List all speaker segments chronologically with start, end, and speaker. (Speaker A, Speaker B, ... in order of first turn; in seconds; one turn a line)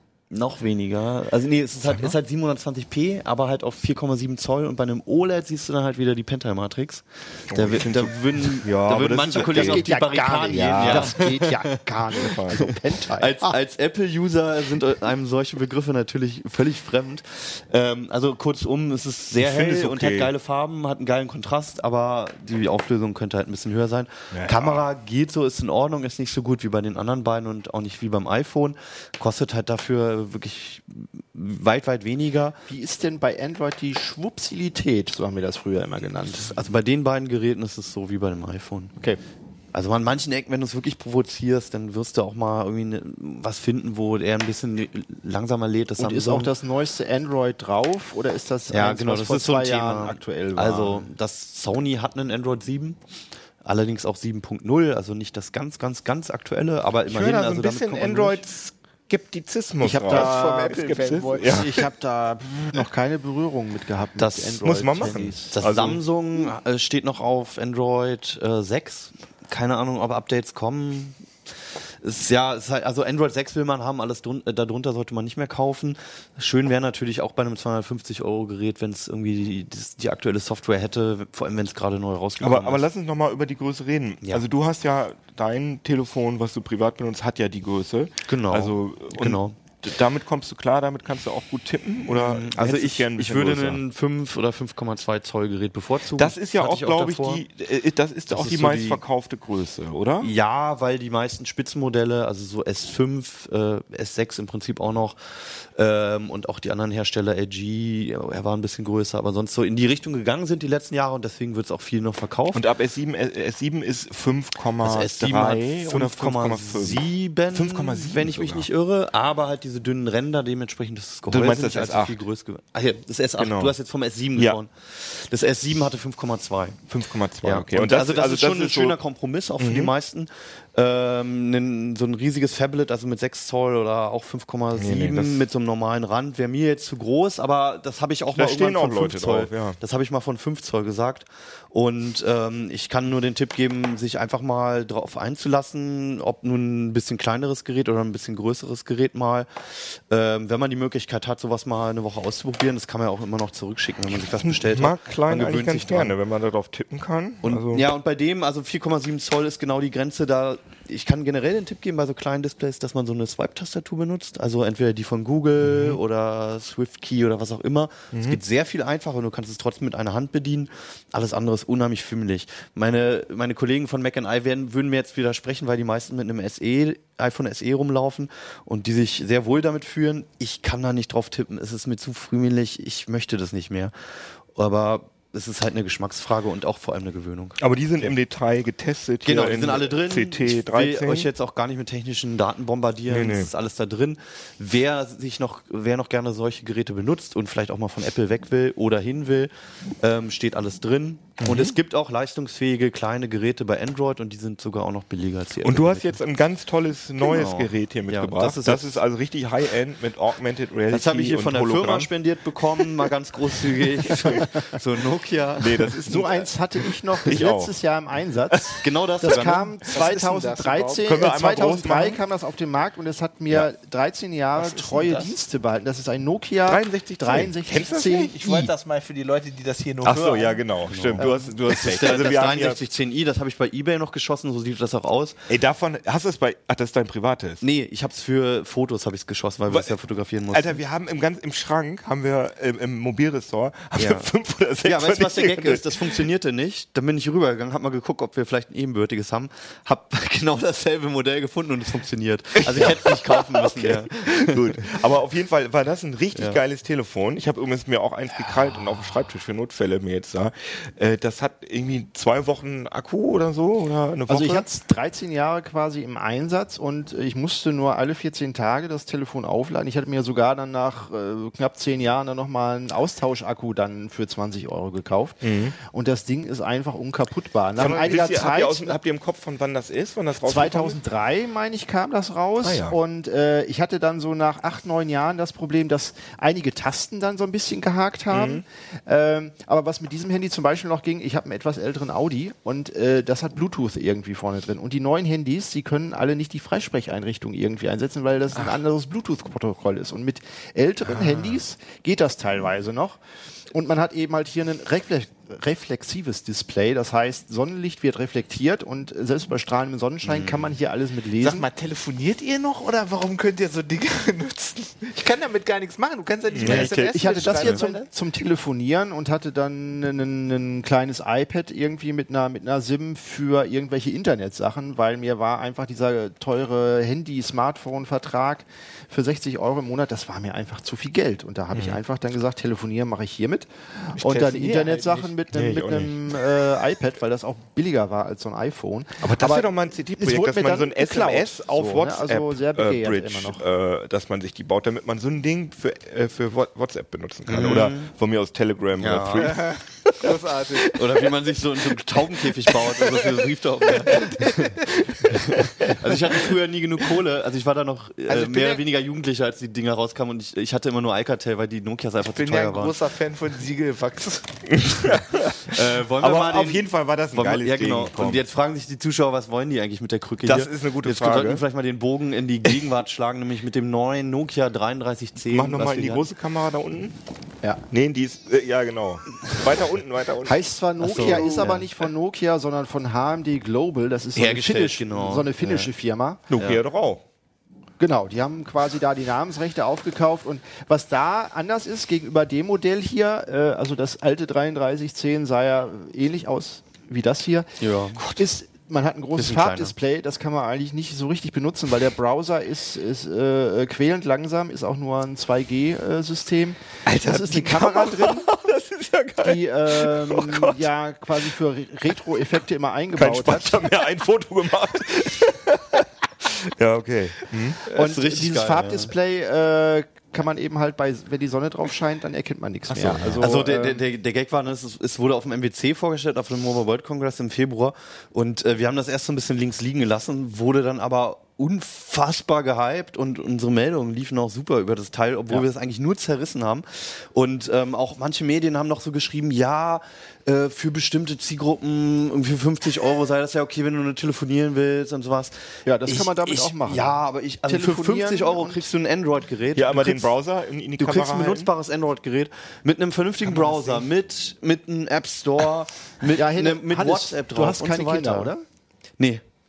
Speaker A: 0.3-11.7
Speaker B: 7.5-9.9
Speaker C: 9.3-13.4
Speaker B: 10.4-11.2
Speaker B: 12.2-12.6
Speaker A: 12.5-32.6
Speaker B: 19.3-20.3
Speaker B: 24.3-24.8
Speaker C: 32.7-36.5
Speaker A: 36.3-38.9
Speaker A: 39.7-46.5
Speaker C: 46.0-51.1
Speaker A: 48.7-53.0
Speaker A: 53.6-58.4
Speaker B: 57.0-61.8
Speaker C: 59.8-65.6
Speaker D: 60.1-61.6
Speaker A: 64.2-71.2
Speaker B: 64.6-66.0
Speaker A: 72.0-82.8
Speaker B: 82.4-93.8
Speaker A: 88.3-89.6
Speaker A: 92.1-97.4
Speaker B: 96.2-100.3
Speaker A: 98.3-99.0
Speaker A: 100.2-112.6
Speaker B: 112.5-118.7
Speaker A: 114.8-126.8
Speaker B: 121.3-122.2
Speaker B: 123.4-123.7
Speaker B: 126.9-129.0
Speaker A: 127.4-156.1
Speaker B: 129.6-129.9
Speaker B: 134.8-135.4
Speaker B: 138.3-139.8
Speaker B: 154.4-157.9
Speaker A: 157.4-183.9
Speaker B: 165.6-166.0
Speaker B: 168.1-168.4
Speaker A: 184.5-188.1
Speaker B: 187.6-191.3
Speaker A: 189.2-206.2
Speaker B: 193.1-193.5
Speaker B: 201.4-201.8
Speaker B: 205.6-212.1
Speaker A: 207.2-209.0
Speaker A: 210.9-215.9
Speaker B: 212.7-213.1
Speaker B: 214.0-214.5
Speaker B: 215.6-216.5
Speaker C: 216.1-228.7
Speaker B: 217.2-217.7
Speaker A: 218.8-219.8
Speaker D: 219.9-221.1
Speaker B: 221.1-222.2
Speaker D: 224.6-225.3
Speaker B: 226.7-228.3
Speaker D: 228.3-230.6
Speaker B: 230.0-232.8
Speaker A: 230.9-235.4
Speaker B: 235.5-237.6
Speaker A: 237.6-240.8
Speaker B: 239.7-239.9
Speaker B: 240.5-246.3
Speaker A: 243.9-244.3
Speaker A: 244.8-255.0
Speaker B: 252.6-264.7
Speaker A: 256.3-256.6
Speaker C: 264.3-279.0
Speaker B: 275.4-275.8
Speaker B: 277.8-281.0
Speaker C: 280.4-303.2
Speaker B: 282.6-283.0
Speaker B: 288.3-288.6
Speaker B: 301.1-301.6
Speaker C: 303.7-311.7
Speaker A: 310.2-310.7
Speaker D: 311.4-318.1
Speaker B: 316.5-317.5
Speaker C: 316.6-343.6
Speaker A: 317.5-317.8
Speaker D: 334.1-335.3
Speaker B: 335.5-336.2
Speaker B: 339.2-350.3
Speaker A: 347.5-348.1
Speaker A: 349.0-349.6
Speaker D: 349.4-351.3
Speaker A: 350.9-363.0
Speaker D: 353.0-353.4
Speaker D: 354.0-355.4
Speaker B: 355.6-356.0
Speaker D: 358.3-358.8
Speaker D: 362.2-364.5
Speaker B: 364.7-368.4
Speaker A: 365.6-376.2
Speaker B: 370.4-371.6
Speaker B: 375.4-377.1
Speaker B: 377.9-380.5
Speaker C: 380.4-386.4
Speaker A: 381.0-381.9
Speaker A: 384.3-385.9
Speaker B: 386.5-387.2
Speaker A: 386.5-386.8
Speaker C: 388.0-397.8
Speaker A: 397.8-398.2
Speaker C: 398.3-408.5
Speaker A: 399.3-399.9
Speaker B: 407.1-410.9
Speaker C: 409.4-413.9
Speaker B: 413.2-417.8
Speaker A: 417.9-419.1
Speaker C: 417.9-424.0
Speaker A: 422.9-450.3
Speaker B: 423.1-423.4
Speaker C: 445.9-448.9
Speaker B: 449.7-451.7
Speaker A: 451.0-458.5
Speaker B: 453.6-453.9
Speaker C: 456.3-458.6